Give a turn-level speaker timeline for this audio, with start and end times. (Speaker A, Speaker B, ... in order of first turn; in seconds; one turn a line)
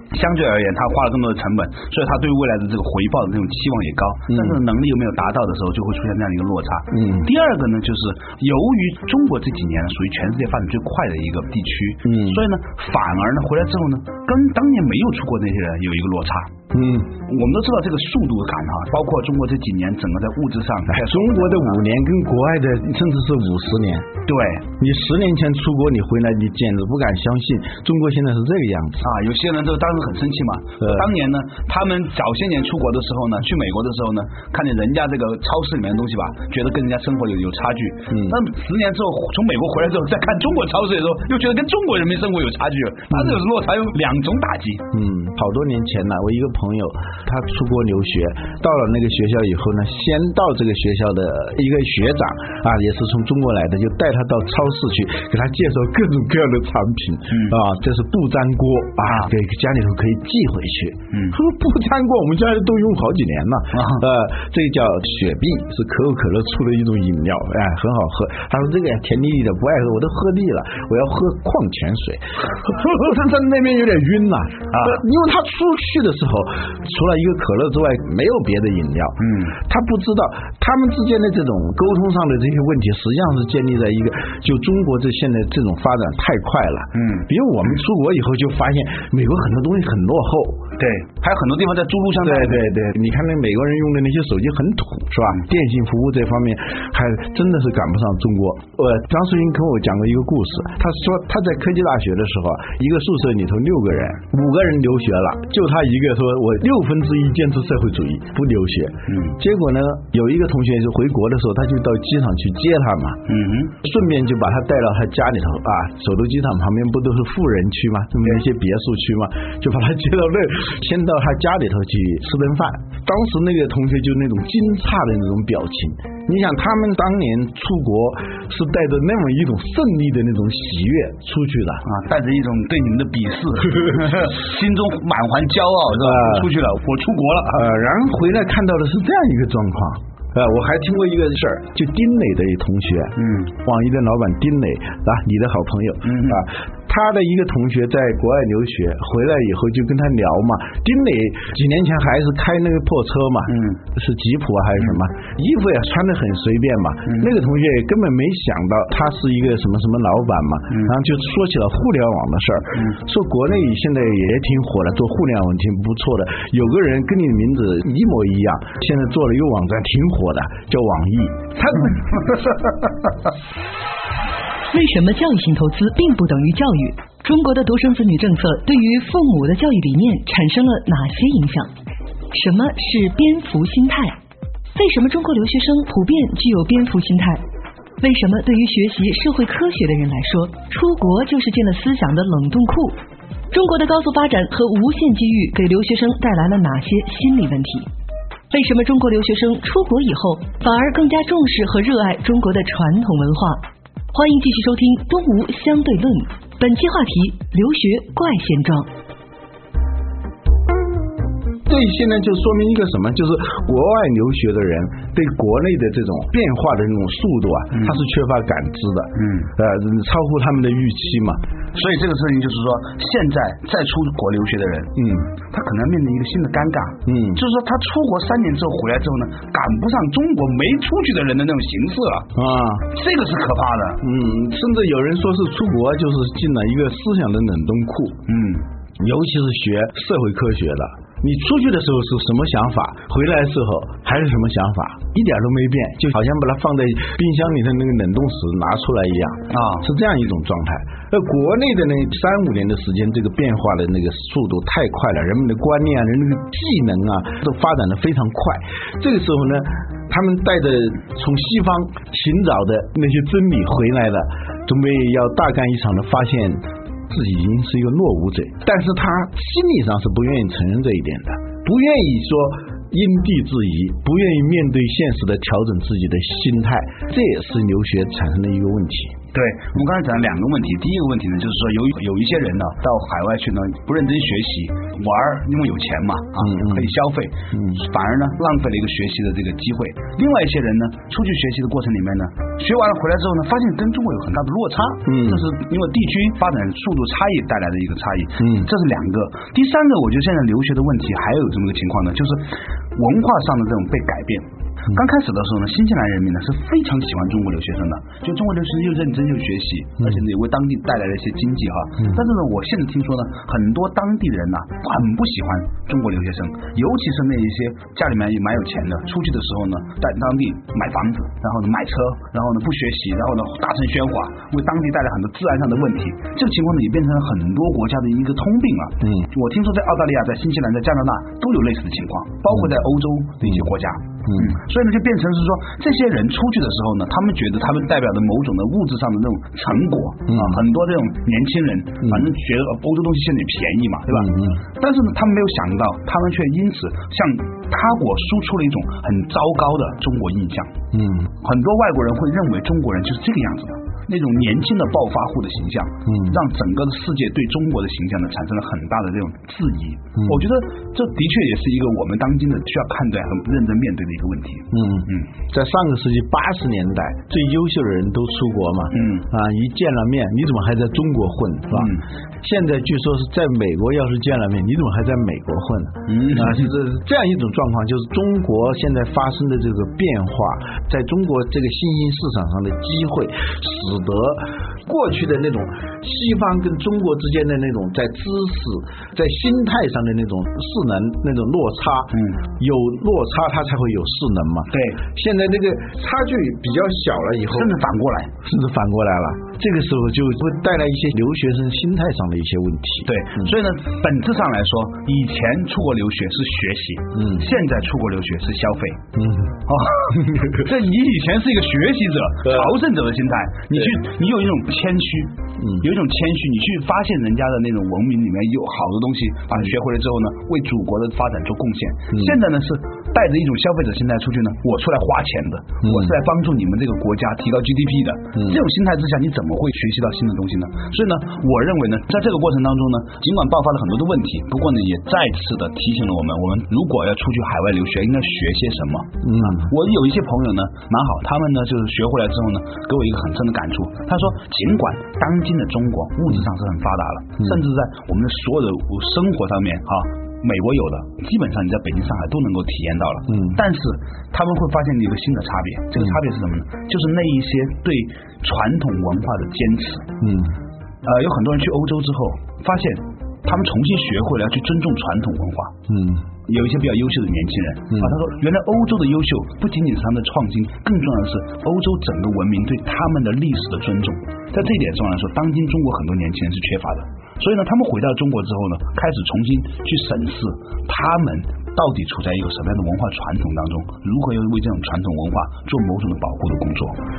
Speaker A: 0.1-16.5
Speaker B: 4.3-4.6
Speaker B: 6.9-7.3
Speaker B: 12.0-12.4
Speaker B: 16.7-17.1
Speaker A: 17.2-21.8
Speaker B: 20.9-24.1
Speaker A: 24.2-24.7
Speaker B: 24.8-29.0
Speaker A: 29.0-44.9
Speaker B: 30.8-31.1
Speaker B: 38.1-38.4
Speaker B: 44.9-90.6
Speaker A: 57.3-57.6
Speaker A: 63.7-64.0
Speaker A: 74.7-75.0
Speaker A: 79.2-79.5
Speaker A: 86.9-87.2
Speaker A: 90.8-92.7
Speaker B: 92.2-113.2
Speaker A: 109.1-109.3
Speaker A: 113.3-113.7
Speaker B: 113.8-131.8
Speaker A: 131.8-137.7
Speaker B: 136.0-136.5
Speaker B: 137.5-172.5
Speaker A: 143.2-143.5
Speaker A: 146.0-146.4
Speaker A: 153.5-153.8
Speaker C: 174.7-181.7
Speaker C: 182.3-184.2
Speaker C: 184.7-187.4
Speaker C: 188.0-193.0
Speaker C: 193.5-197.9
Speaker C: 198.5-208.9
Speaker B: 211.6-221.4
Speaker A: 217.7-218.0
Speaker A: 219.2-219.5
Speaker A: 221.7-232.3
Speaker B: 224.9-225.3
Speaker B: 227.1-227.4
Speaker B: 232.3-232.9
Speaker A: 232.9-234.0
Speaker B: 234.0-238.2
Speaker A: 238.3-238.6
Speaker B: 239.0-279.1
Speaker A: 249.5-249.8
Speaker A: 279.3-350.7
Speaker B: 286.4-286.9
Speaker B: 295.1-295.4
Speaker B: 298.4-298.7
Speaker B: 334.3-334.5
Speaker B: 340.3-340.6
Speaker B: 344.1-344.6
Speaker B: 350.9-351.3
Speaker A: 351.4-365.2
Speaker B: 356.1-356.4
Speaker B: 364.7-397.7
Speaker A: 368.9-369.2
Speaker A: 371.7-372.0
Speaker A: 376.1-376.7
Speaker A: 394.7-395.0
Speaker A: 397.5-398.3
Speaker B: 398.4-403.2
Speaker A: 403.1-409.0
Speaker B: 407.1-407.4
Speaker B: 409.1-409.6
Speaker A: 409.7-460.1
Speaker B: 425.8-426.1
Speaker B: 439.2-439.6
Speaker B: 460.2-460.5
Speaker A: 461.0-465.7
Speaker B: 465.9-466.2
Speaker A: 466.4-487.0